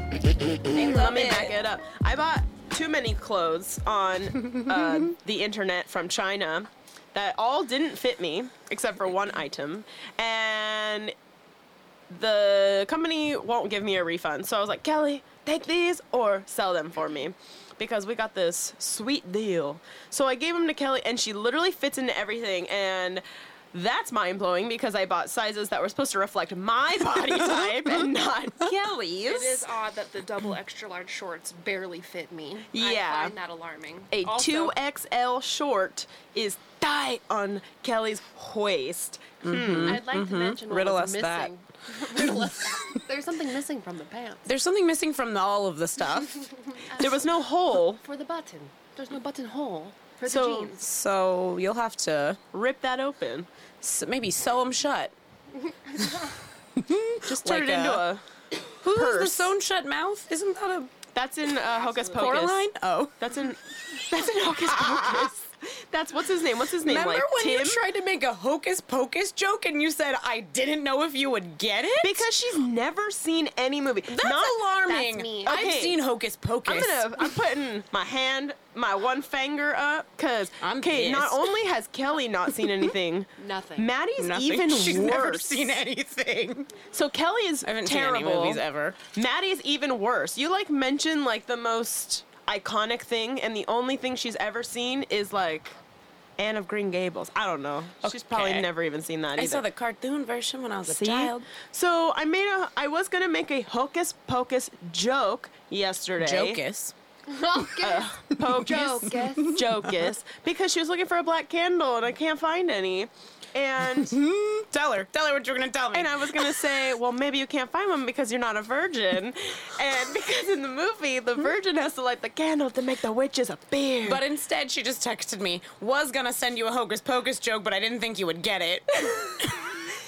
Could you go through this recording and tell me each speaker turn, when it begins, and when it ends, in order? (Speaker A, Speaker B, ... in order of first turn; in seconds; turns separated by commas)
Speaker A: 0.2-11.2, Speaker B: 0.7-1.5, Speaker A: 12.1-29.7, Speaker B: 27.2-28.0, Speaker C: 29.3-34.8, Speaker A: 32.7-33.4, Speaker A: 34.1-40.1, Speaker B: 39.4-42.5, Speaker C: 39.8-44.5, Speaker B: 44.5-46.5, Speaker C: 46.7-47.1, Speaker A: 46.9-48.0, Speaker C: 48.0-50.8, Speaker A: 50.3-50.7, Speaker B: 50.8-52.4, Speaker A: 52.5-53.5, Speaker B: 53.8-55.1, Speaker B: 56.0-58.1, Speaker A: 57.3-58.2, Speaker B: 58.8-60.9, Speaker A: 58.9-59.5, Speaker A: 61.1-62.7, Speaker B: 62.2-63.2, Speaker A: 63.2-67.8, Speaker B: 64.7-65.3, Speaker B: 66.8-72.3, Speaker A: 72.0-74.6, Speaker B: 74.1-77.4, Speaker C: 74.9-75.7, Speaker A: 75.5-76.0, Speaker A: 76.7-85.8, Speaker B: 80.6-81.5, Speaker C: 83.4-83.9, Speaker B: 84.2-86.9, Speaker A: 86.9-95.8, Speaker B: 87.7-89.0, Speaker A: 96.4-99.7, Speaker B: 98.0-98.7, Speaker B: 99.4-101.5, Speaker A: 100.8-106.6, Speaker B: 106.2-106.9, Speaker C: 107.3-109.6, Speaker A: 107.8-114.2, Speaker B: 108.3-110.0, Speaker B: 114.0-116.7, Speaker A: 115.9-124.2, Speaker B: 124.0-129.9